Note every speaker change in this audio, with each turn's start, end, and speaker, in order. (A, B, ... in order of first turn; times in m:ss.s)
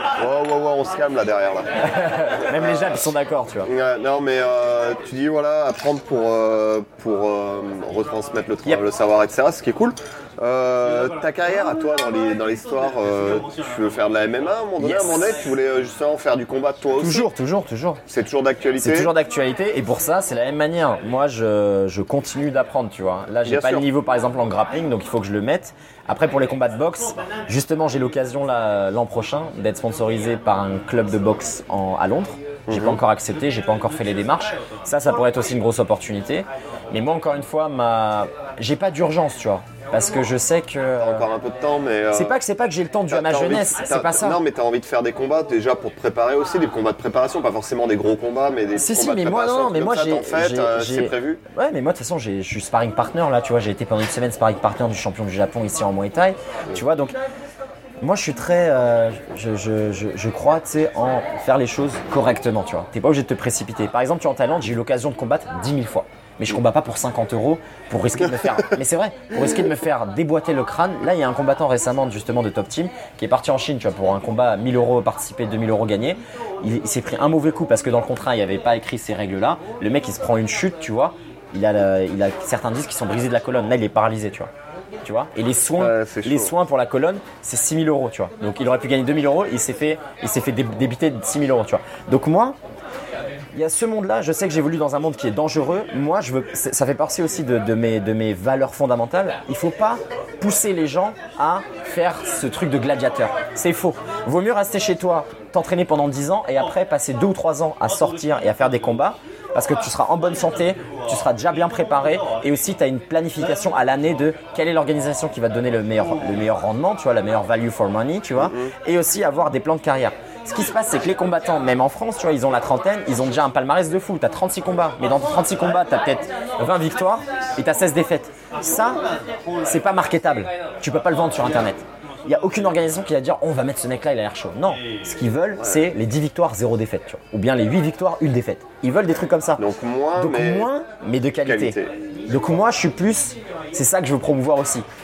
0:00.2-0:01.7 A
0:01.8-0:03.7 B
0:02.5-0:03.0 A
0:03.6-0:17.3 A
0:14.8-0:15.4 B
0:17.0-0:18.0 B
0:18.1-0:19.1 A
0:18.8-0:41.3 B
0:23.4-0:23.9 A
0:32.7-0:33.0 A
0:41.0-0:42.4 A
0:42.1-0:44.4 B
0:43.1-0:51.4 A
0:48.8-0:57.2 B
0:58.0-1:24.5 B
1:25.0-1:32.6 B
1:25.8-1:26.5 A
1:33.5-2:09.0 B
1:58.4-1:58.7 A
2:09.6-2:19.6 B
2:15.6-2:15.8 A
2:19.6-2:20.7 A
2:20.2-2:24.9 B
2:21.4-2:21.9 A